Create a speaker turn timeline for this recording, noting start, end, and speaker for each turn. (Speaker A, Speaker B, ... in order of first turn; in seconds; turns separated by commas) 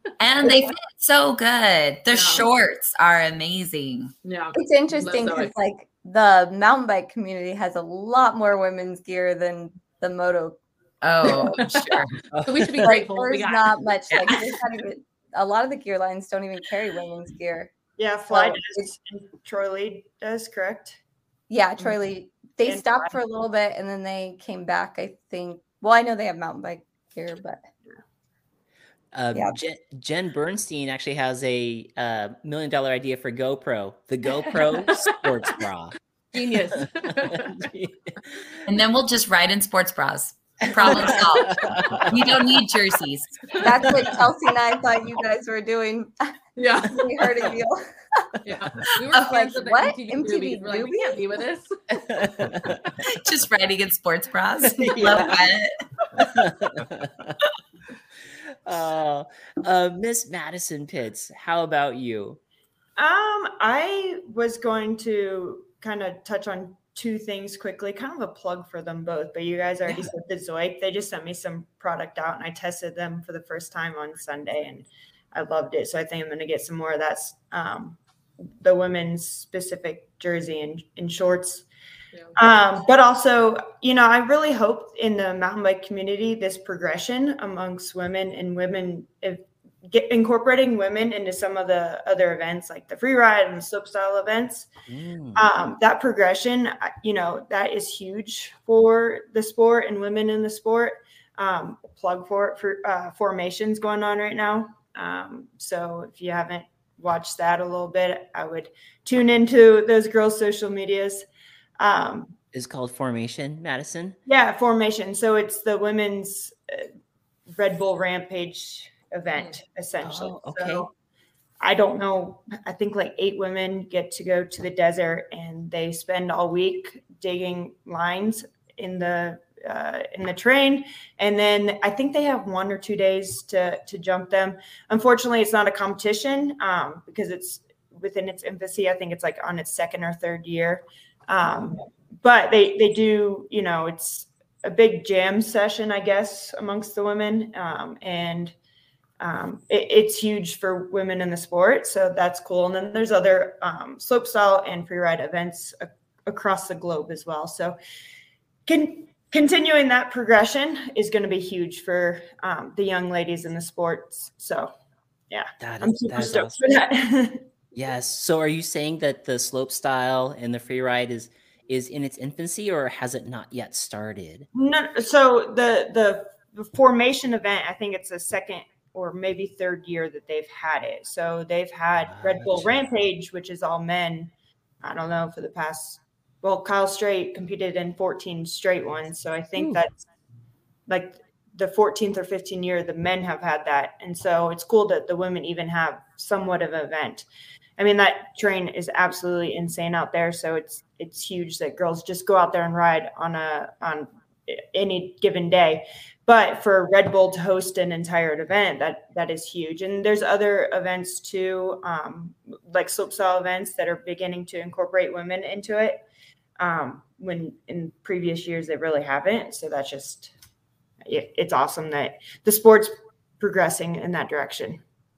Speaker A: 0.2-4.1, Speaker B: 2.1-2.5, Speaker B: 4.2-5.5, Speaker C: 4.5-10.6, Speaker A: 11.0-12.1, Speaker B: 11.4-14.6, Speaker D: 12.3-12.9, Speaker C: 12.8-17.7, Speaker E: 18.0-21.0, Speaker C: 18.3-18.8, Speaker C: 21.5-27.6, Speaker E: 22.6-23.2, Speaker D: 29.1-35.9, Speaker B: 36.3-37.5, Speaker D: 37.2-38.6, Speaker A: 38.7-41.6, Speaker D: 40.8-42.2, Speaker B: 41.1-41.5, Speaker A: 42.1-43.3, Speaker C: 43.6-48.2, Speaker D: 43.9-44.1, Speaker B: 46.6-47.6, Speaker B: 48.5-51.7, Speaker C: 49.2-51.3, Speaker D: 51.9-53.0, Speaker A: 53.1-55.8, Speaker D: 54.6-55.3, Speaker D: 56.2-57.4, Speaker D: 58.6-62.4, Speaker E: 63.0-78.0, Speaker D: 69.9-70.1, Speaker E: 78.6-81.7, Speaker E: 82.3-94.7, Speaker D: 94.9-95.5, Speaker E: 95.3-111.2, Speaker E: 111.8-112.3, Speaker D: 112.5-114.2, Speaker E: 114.3-116.9, Speaker E: 117.5-120.9, Speaker D: 120.0-120.9, Speaker E: 121.6-148.5, Speaker E: 149.2-157.8, Speaker E: 158.7-164.7, Speaker E: 165.3-167.5, Speaker D: 165.6-166.6, Speaker D: 167.7-174.5, Speaker E: 174.5-184.3, Speaker D: 182.0-182.8, Speaker E: 184.8-190.0, Speaker E: 190.9-197.2, Speaker E: 197.8-216.0, Speaker E: 216.6-220.3, Speaker E: 221.0-224.8